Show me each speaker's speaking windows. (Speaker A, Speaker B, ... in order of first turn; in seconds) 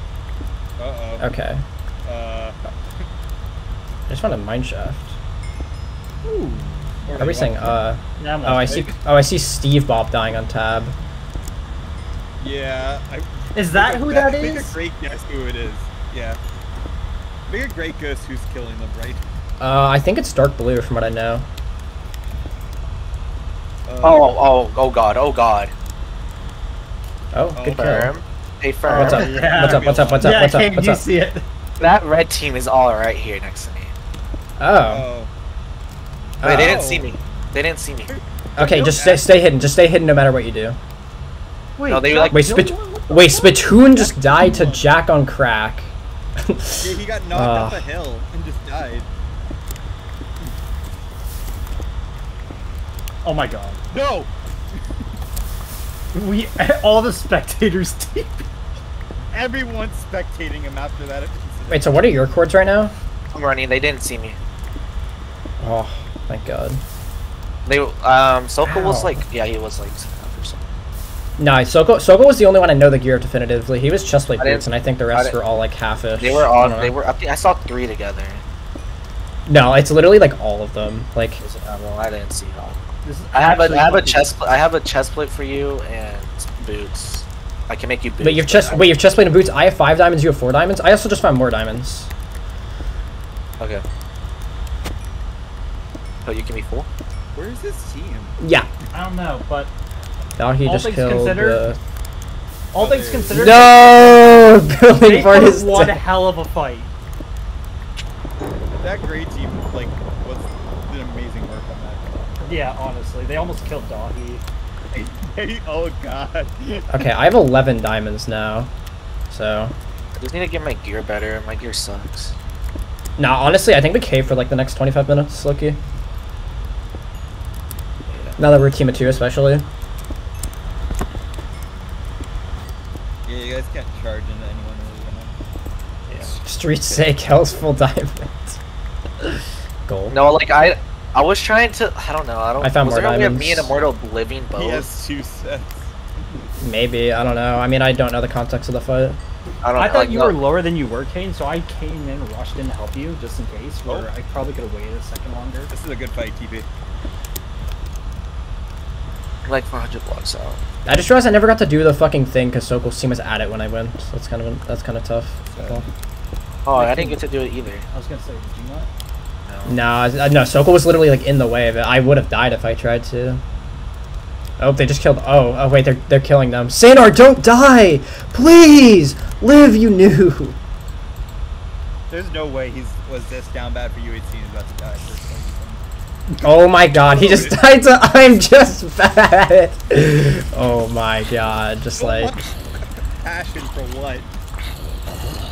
Speaker A: 0.8-1.2, 2.1-2.6, 7.1-7.8, 12.4-16.4, 17.5-19.2, 23.9-24.4, 27.6-28.0, 28.9-30.5, 34.9-35.3, 36.5-37.1, 38.1-39.4, 43.9-44.9, 46.8-49.1, 53.9-54.3, 59.3-62.1, 97.3-98.4, 102.8-103.7, 108.4-112.4, 114.9-117.0, 133.3-135.3, 144.6-146.4, 155.7-156.7, 165.5-165.9, 182.1-185.8, 186.8-187.7, 192.0-194.3
Speaker B: 1.2-1.6, 4.1-5.2, 7.2-10.9, 19.6-21.5, 27.3-28.1, 28.9-31.1, 34.6-35.1, 36.4-37.0, 38.6-40.8, 42.3-47.9, 61.7-63.0, 65.6-66.8, 68.7-69.2, 71.4-76.9, 79.5-81.4, 88.2-92.1, 98.4-98.7, 100.4-101.8, 103.3-106.0, 116.9-118.7, 119.3-119.7, 123.2-125.8, 128.4-129.7, 136.2-138.6, 139.9-140.3, 142.6-143.7, 146.6-149.2, 160.9-165.8, 169.7-173.4, 174.6-180.6, 186.4-192.3
Speaker C: 6.2-6.9, 8.2-8.9, 13.6-14.7, 29.0-31.4, 41.8-43.7, 53.2-53.8, 56.1-58.5, 83.0-84.3, 98.9-99.7, 100.6-101.8, 102.7-104.1, 105.0-106.9, 112.4-114.4, 149.8-155.7, 166.7-167.2, 167.9-168.9
Speaker D: 24.0-25.7, 27.7-29.3, 31.8-33.9, 36.4-38.1, 41.9-42.4, 63.3-64.4, 67.7-70.6, 74.4-75.4, 76.2-78.4, 81.4-82.8, 83.3-88.9, 96.2-96.9, 120.2-122.3, 128.1-128.4, 136.1-136.4, 140.1-144.9, 149.6-150.4, 159.4-160.6, 166.7-167.9, 169.5-169.8